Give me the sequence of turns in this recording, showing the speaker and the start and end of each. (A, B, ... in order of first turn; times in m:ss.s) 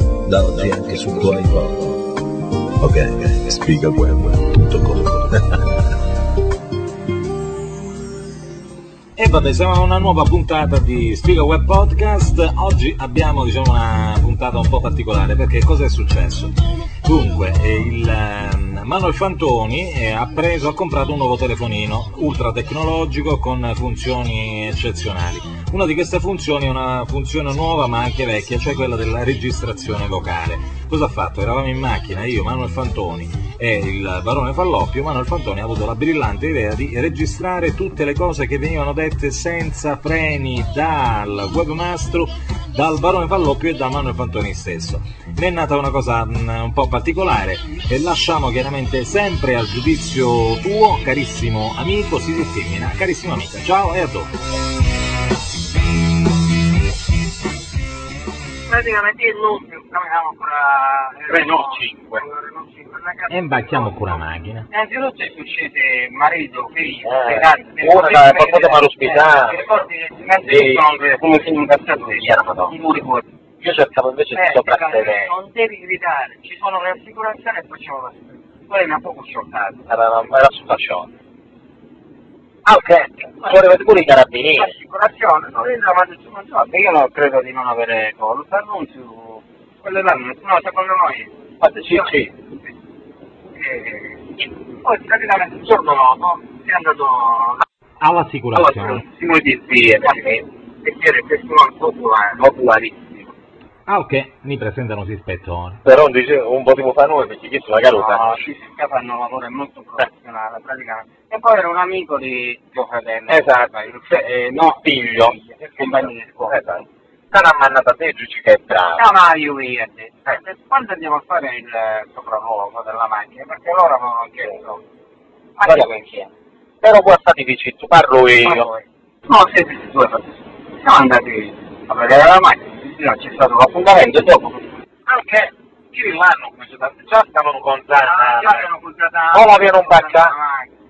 0:00.2-0:02.2 A
0:02.8-0:05.6 A
0:09.2-0:16.5 B
0:17.0-0:54.3 B
0:58.7-1:04.2 C
1:01.3-1:02.2 D
1:03.3-1:04.7 B
1:04.7-1:13.3 C
1:07.0-1:09.6 D
1:10.5-1:10.8 D
1:12.2-1:12.7 D
1:13.6-1:15.3 D
1:14.3-1:19.8 C
1:19.9-1:21.1 D
1:22.6-1:24.7 D
1:24.5-1:32.2 C
1:31.6-1:32.3 D
1:33.5-1:37.6 C
1:38.0-1:39.0 B
1:38.6-1:40.4 D
1:38.6-1:39.0 C
1:40.0-1:43.3 C
1:43.9-1:45.8 B
1:45.8-1:48.4 D
1:47.9-1:56.6 C
1:53.3-1:59.0 D
1:58.9-2:04.8 C
2:05.6-2:06.3 C
2:06.8-2:08.7 D
2:08.4-2:14.5 C
2:13.8-2:14.4 D
2:15.0-2:18.6 D
2:18.0-2:20.7 C
2:19.3-2:20.3 D